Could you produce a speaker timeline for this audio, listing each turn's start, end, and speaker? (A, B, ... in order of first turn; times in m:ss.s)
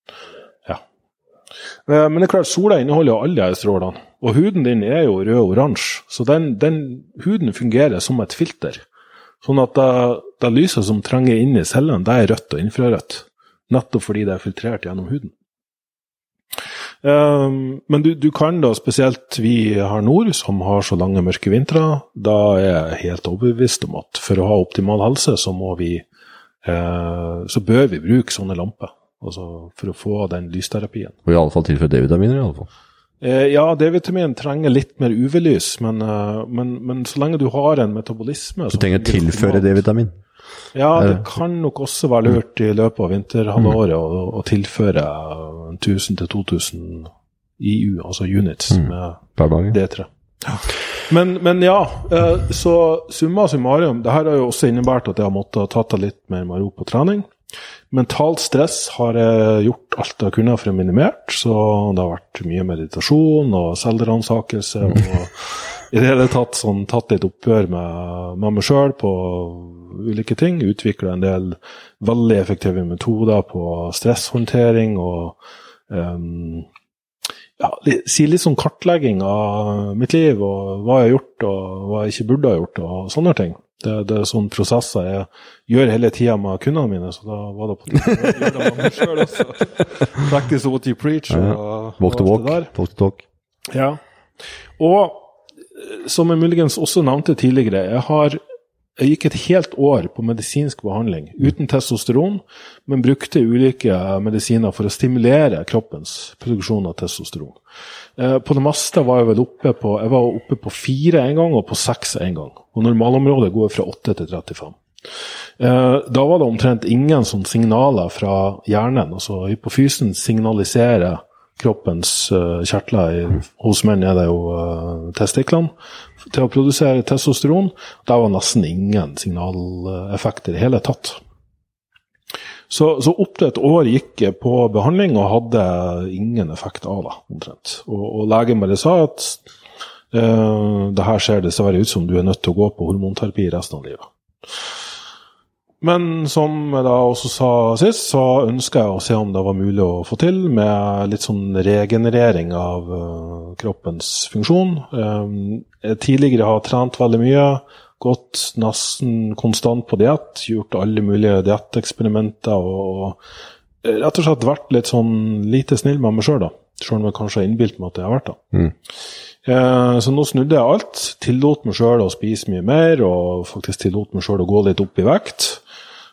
0:01.9-0:08.8 A
0:09.4-0:15.3 A
0:17.0-0:26.0 A
0:26.6-0:31.2 A
0:31.2-0:32.7 B
0:33.2-0:39.8 A
0:38.7-0:40.2 B
0:40.7-0:57.3 A
0:41.0-0:41.2 B
0:48.7-0:49.8 B
0:57.9-1:15.4 A
1:15.9-1:16.7 A
1:17.6-1:32.7 A
1:31.3-1:33.2 B
1:33.7-1:34.0 A
1:34.8-1:38.4 A
1:39.0-1:47.6 A
1:48.2-1:54.8 A
1:55.6-2:05.7 A
2:06.3-2:11.2 A
2:12.7-2:19.4 A
2:20.1-2:24.1 A
2:25.8-2:43.2 A
2:43.8-2:48.4 A
2:49.4-2:55.6 A